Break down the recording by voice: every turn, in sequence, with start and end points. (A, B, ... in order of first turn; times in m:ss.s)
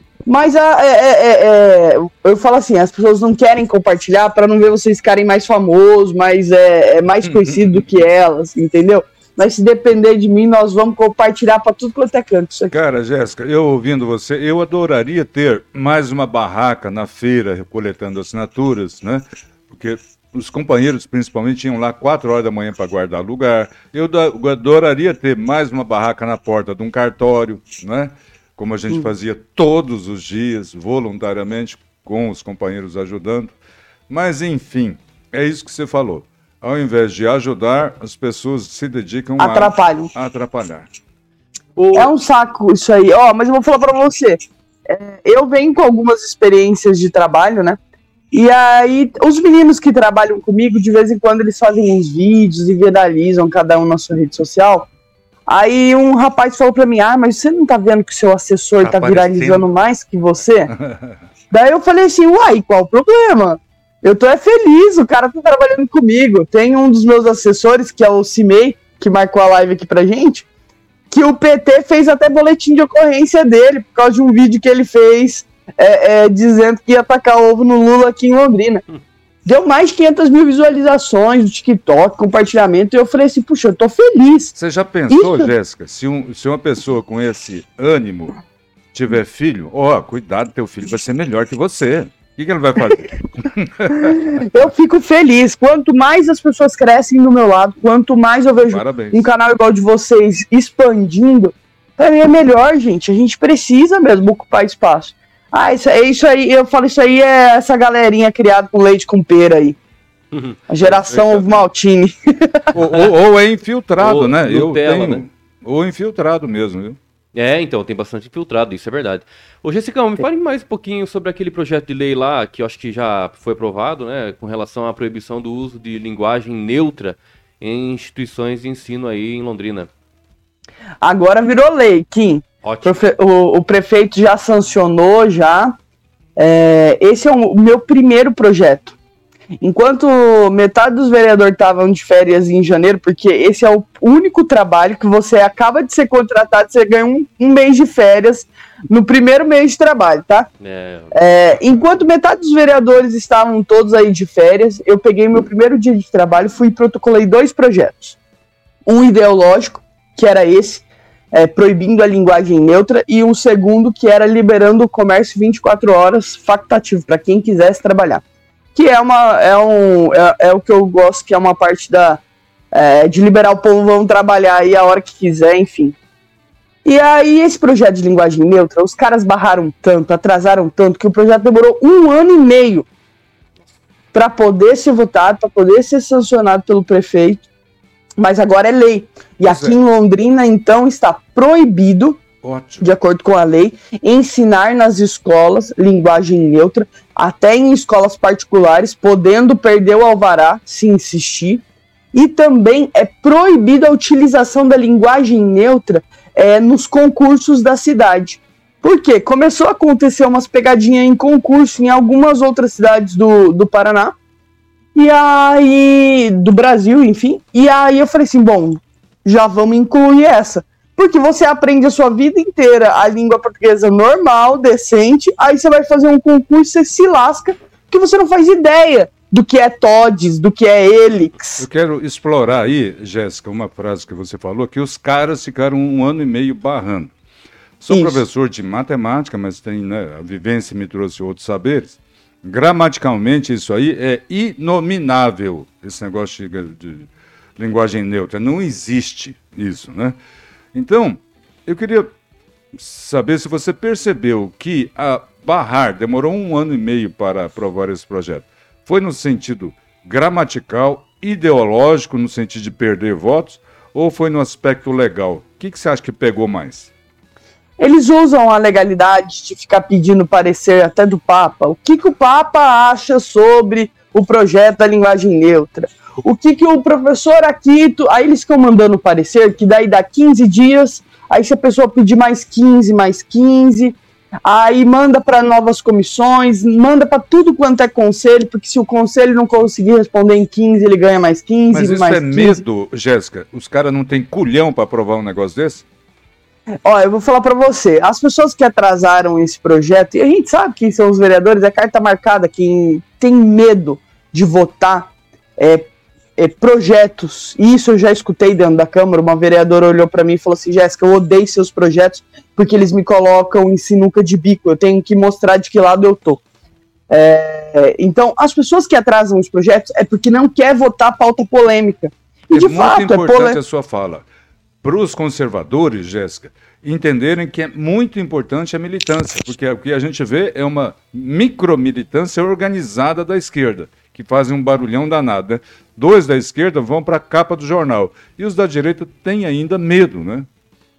0:00.2-0:12.7 A
0:07.2-0:07.8 B
0:12.7-0:33.6 B
0:34.1-0:40.9 B
0:39.4-0:40.1 A
0:41.8-0:42.1 C
0:41.9-0:47.8 A
0:48.3-0:54.9 A
0:55.5-1:00.7 A
0:58.8-0:59.7 B
1:00.8-1:01.1 B
1:01.5-1:10.5 A
1:11.1-1:18.8 A
1:19.4-1:24.5 A
1:24.5-1:28.3 B
1:25.1-1:25.5 A
1:28.9-1:34.4 B
1:34.1-1:49.8 A
1:38.7-1:39.3 B
1:50.3-1:51.6 C
1:50.7-1:52.7 A
1:52.7-1:57.0 B
1:54.0-1:55.2 C
1:57.3-2:09.9 C
2:11.0-2:15.7 A
2:12.6-2:13.0 C
2:16.4-2:18.9 A
2:19.6-2:30.5 A
2:30.6-2:31.2 C
2:31.1-2:38.2 A
2:38.8-2:48.2 A
2:48.7-2:52.2 A
2:52.7-2:56.0 A
2:56.8-3:02.9 A
3:04.1-3:07.5 A
3:08.2-3:12.2 A
3:09.4-3:09.8 B
3:12.4-3:13.0 B
3:12.8-3:21.6 A
3:22.1-3:34.1 A
3:34.9-3:51.6 A
3:51.6-3:57.1 B
3:57.8-4:10.2 B
3:57.9-3:58.2 A
4:10.7-4:12.1 B
4:12.7-4:26.9 B
4:27.8-4:52.6 A
4:51.7-4:55.8 B
4:56.8-5:16.4 A
5:17.1-5:23.6 A
5:22.5-5:24.2 B
5:24.8-5:40.5 B